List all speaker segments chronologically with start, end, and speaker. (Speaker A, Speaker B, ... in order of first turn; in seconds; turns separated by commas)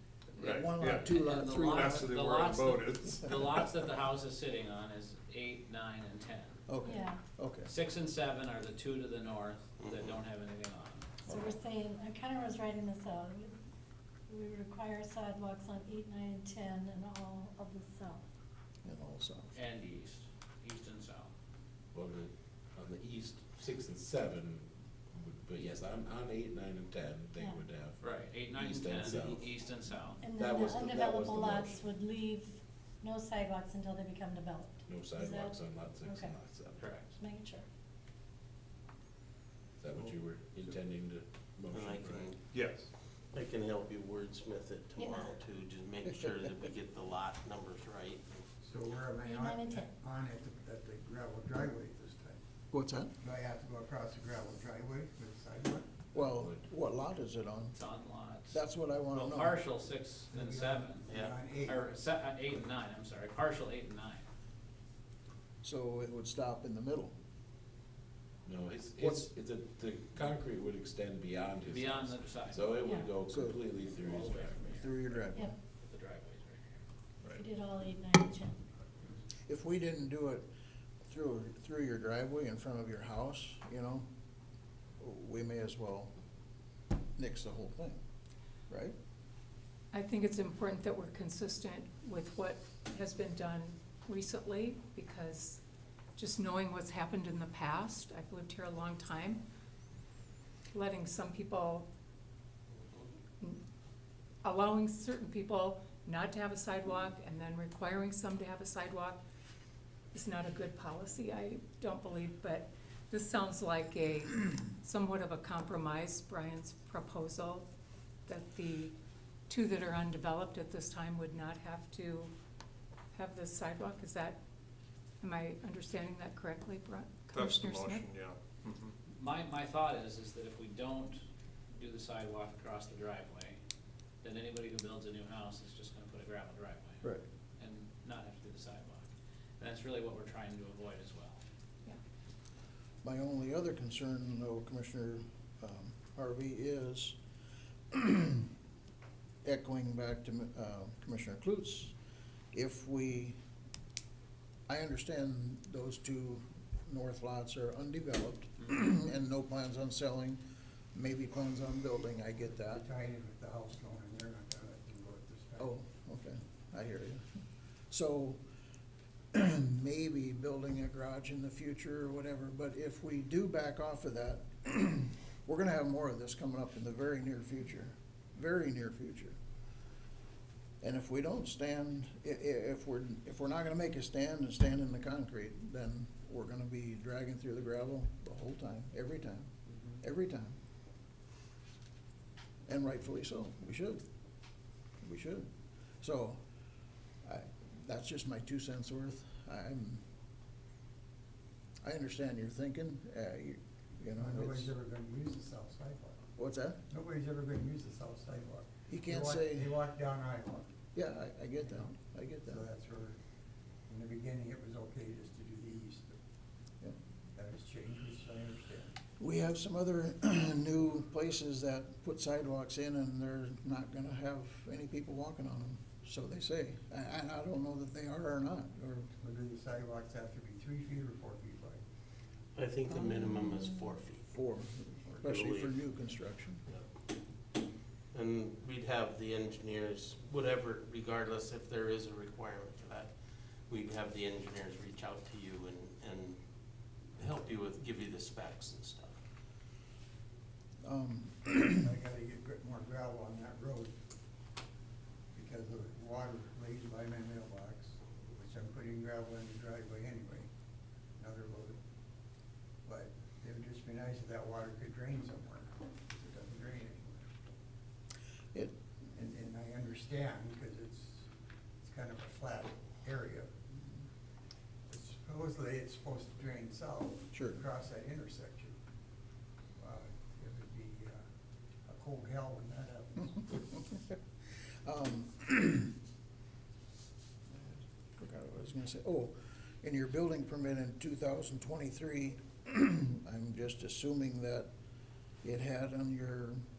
Speaker A: 0.4-6.6, Speaker B: 0.4-2.1, Speaker C: 0.4-0.7, Speaker D: 0.8-3.7, Speaker B: 6.7-7.7, Speaker E: 6.9-7.2, Speaker A: 7.7-11.1, Speaker C: 9.8-10.1, Speaker B: 11.3-11.6, Speaker E: 11.3-13.5, Speaker E: 14.3-18.2, Speaker B: 18.8-19.6, Speaker A: 19.6-21.3, Speaker F: 21.9-29.6, Speaker A: 28.0-30.2, Speaker E: 30.2-35.5, Speaker F: 30.3-31.8, Speaker F: 34.9-37.0, Speaker A: 36.8-37.1, Speaker E: 37.2-37.6, Speaker F: 39.8-42.3, Speaker C: 41.7-42.4, Speaker D: 42.1-42.9, Speaker C: 43.3-48.4, Speaker E: 45.0-45.3, Speaker G: 48.6-52.4, Speaker E: 49.2-49.9, Speaker B: 52.7-53.1, Speaker G: 53.2-55.9, Speaker B: 56.1-57.8, Speaker F: 56.2-56.6, Speaker A: 57.8-64.2, Speaker B: 58.5-59.6, Speaker G: 60.3-61.8, Speaker C: 61.1-61.4, Speaker B: 65.6-67.1, Speaker F: 68.5-74.9, Speaker B: 69.0-69.3, Speaker A: 71.7-73.0, Speaker B: 73.3-73.6, Speaker A: 73.9-75.0, Speaker B: 74.8-75.5, Speaker A: 75.8-76.8, Speaker E: 77.3-78.6, Speaker B: 79.5-80.5, Speaker B: 81.1-84.1, Speaker B: 85.0-86.1, Speaker B: 87.2-88.0, Speaker B: 88.7-89.0, Speaker H: 89.9-95.6, Speaker H: 96.2-99.4, Speaker H: 100.7-101.9, Speaker H: 104.4-109.2, Speaker H: 110.1-117.7, Speaker H: 118.3-118.9, Speaker H: 119.5-122.3, Speaker H: 123.1-124.4, Speaker H: 125.2-128.1, Speaker D: 127.3-128.9, Speaker A: 129.2-131.2, Speaker A: 131.8-133.6, Speaker A: 134.2-137.0, Speaker A: 137.6-139.1, Speaker A: 139.6-141.4, Speaker B: 143.0-147.2, Speaker B: 147.9-148.5, Speaker B: 149.4-151.9, Speaker B: 152.5-153.4, Speaker B: 154.7-160.4, Speaker B: 160.9-162.8, Speaker G: 162.7-165.7, Speaker B: 165.6-167.3, Speaker B: 167.9-168.4, Speaker B: 169.3-179.4, Speaker B: 180.8-190.6, Speaker B: 192.7-194.0, Speaker B: 195.0-195.5, Speaker B: 196.0-196.4, Speaker B: 197.2-200.0, Speaker B: 201.8-204.7, Speaker G: 204.2-206.2, Speaker B: 206.4-206.8, Speaker G: 206.9-210.7, Speaker B: 208.9-209.7, Speaker B: 210.9-212.6, Speaker G: 211.7-211.9, Speaker G: 212.5-213.2, Speaker G: 213.9-216.2, Speaker G: 217.3-218.9, Speaker B: 219.2-229.1, Speaker G: 229.2-231.8, Speaker C: 232.6-234.2, Speaker B: 232.9-236.6, Speaker C: 235.2-235.8, Speaker C: 238.1-243.1, Speaker C: 243.7-246.4, Speaker C: 247.2-249.2, Speaker B: 250.8-251.9, Speaker G: 251.7-253.9, Speaker G: 255.3-260.5, Speaker G: 261.2-261.8, Speaker G: 262.9-267.3, Speaker G: 269.1-271.3, Speaker G: 271.8-273.5, Speaker G: 274.9-278.8, Speaker B: 277.3-277.6, Speaker G: 279.8-281.2, Speaker G: 281.9-283.5, Speaker B: 284.9-285.9, Speaker B: 288.2-294.7, Speaker B: 295.4-296.6